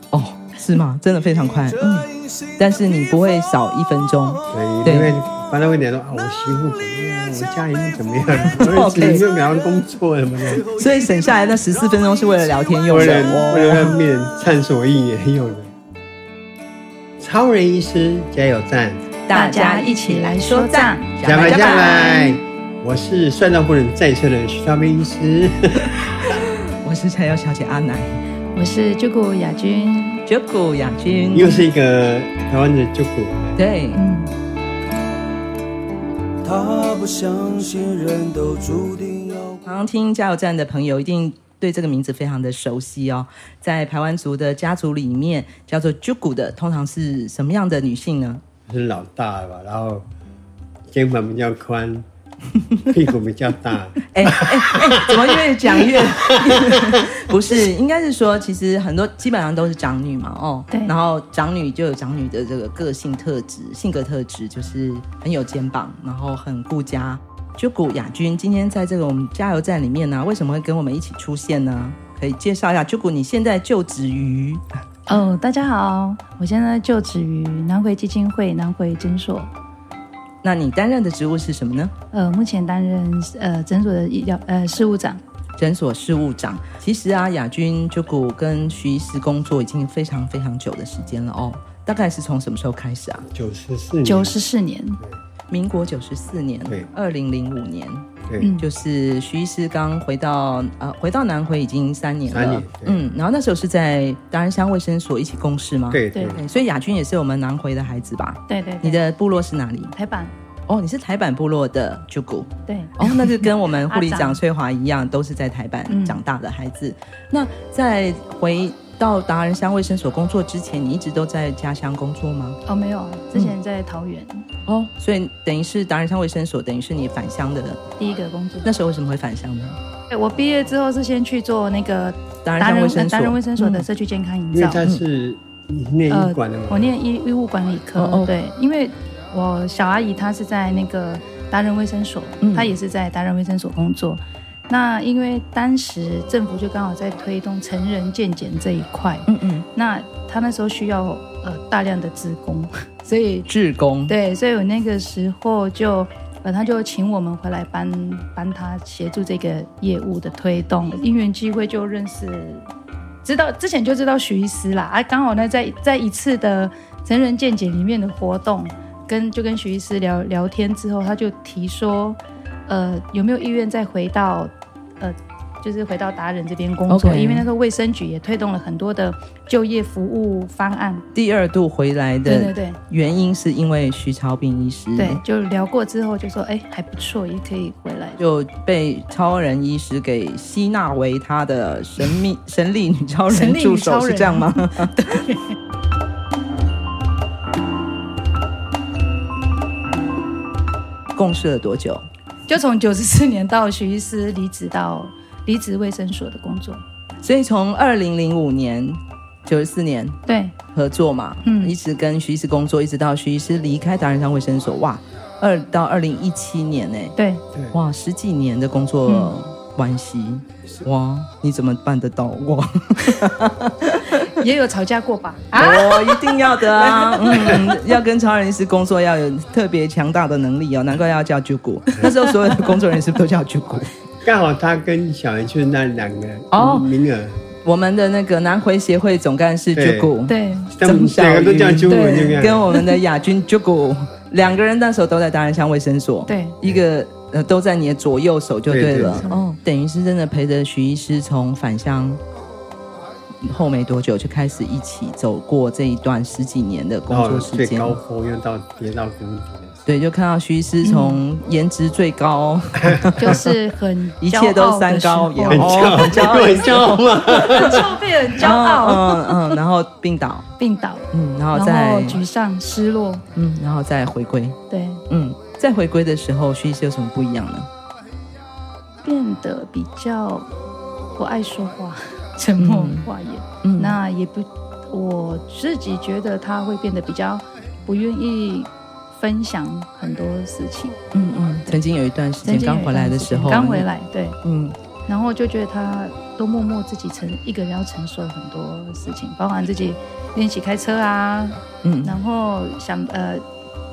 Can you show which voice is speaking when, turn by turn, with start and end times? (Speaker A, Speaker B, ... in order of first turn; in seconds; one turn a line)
Speaker A: 0.1-5.1
Speaker B: 1.8-3.0
Speaker C: 4.5-10.7
Speaker A: 8.4-9.2
Speaker B: 10.6-11.6
Speaker A: 10.7-14.0
Speaker C: 12.9-15.7
Speaker C: 17.2-19.1
Speaker A: 19.3-22.3
Speaker D: 19.3-22.4
Speaker C: 21.2-26.4
Speaker A: 26.2-28.2
Speaker D: 28.5-30.2
Speaker A: 30.2-31.6
Speaker C: 31.2-33.6
Speaker A: 33.5-34.0
Speaker D: 33.9-34.3
Speaker B: 36.4-39.6
Speaker A: 39.6-48.4
Speaker C: 48.7-50.1
Speaker C: 50.9-52.1
Speaker C: 52.9-57.0
Speaker A: 54.0-74.6
Speaker D: 75.1-79.5
Speaker A: 80.4-81.9
Speaker D: 82.1-85.2
Speaker A: 85.6-93.2
Speaker C: 93.2-94.4
Speaker D: 94.0-95.0
Speaker A: 95.5-98.1
Speaker C: 98.2-98.5
Speaker D: 98.4-98.7
Speaker A: 98.6-109.9
Speaker C: 102.3-103.0
Speaker C: 105.9-106.4
Speaker D: 106.1-106.4
Speaker D: 108.5-109.0
Speaker D: 109.9-110.3
Speaker A: 110.7-122.6
Speaker D: 112.7-114.4
Speaker D: 115.9-116.2
Speaker D: 122.7-124.5
Speaker A: 124.7-127.8
Speaker D: 128.0-128.7
Speaker A: 128.6-129.8
Speaker D: 130.1-134.8
Speaker A: 132.4-133.8
Speaker C: 134.5-136.9
Speaker D: 136.1-153.5
Speaker A: 137.9-138.3
Speaker A: 142.4-142.7
Speaker A: 149.3-149.6
Speaker A: 153.5-154.1
Speaker D: 154.1-162.7
Speaker D: 163.2-181.1
Speaker A: 176.9-177.5
Speaker A: 181.1-185.2
Speaker D: 182.2-182.8
Speaker D: 185.0-188.2
Speaker A: 188.2-195.2
Speaker D: 193.3-195.4
Speaker A: 201.1-202.1
Speaker D: 202.5-206.8
Speaker A: 207.2-210.2
Speaker D: 210.3-210.6
Speaker A: 210.7-217.2
Speaker D: 211.4-211.7
Speaker D: 217.2-217.4
Speaker A: 217.7-224.4
Speaker D: 219.1-219.3
Speaker D: 224.2-227.6
Speaker A: 225.6-233.9
Speaker C: 234.2-237.4
Speaker A: 236.5-236.9
Speaker A: 237.6-252.2
Speaker C: 239.7-240.1
Speaker D: 240.3-240.7
Speaker C: 240.7-242.7
Speaker D: 241.9-243.0
Speaker D: 246.3-246.6
Speaker C: 248.7-249.3
Speaker D: 249.1-249.4
Speaker A: 253.4-258.0
Speaker C: 257.1-259.9
Speaker A: 259.9-263.5
Speaker D: 260.8-261.2
Speaker C: 262.8-263.4
Speaker D: 263.2-266.5
Speaker A: 264.2-267.8
Speaker C: 265.5-268.1
Speaker D: 267.3-269.6
Speaker A: 268.3-270.5
Speaker D: 270.6-273.2
Speaker A: 271.1-272.2
Speaker A: 273.3-274.6
Speaker D: 274.7-275.0
Speaker A: 275.1-277.7
Speaker D: 279.0-280.5
Speaker D: 281.1-291.0
Speaker A: 282.6-283.1
Speaker A: 283.6-284.0
Speaker A: 291.1-293.9
Speaker D: 292.4-294.4
Speaker A: 294.4-294.8
Speaker D: 295.1-303.4
Speaker A: 301.8-302.1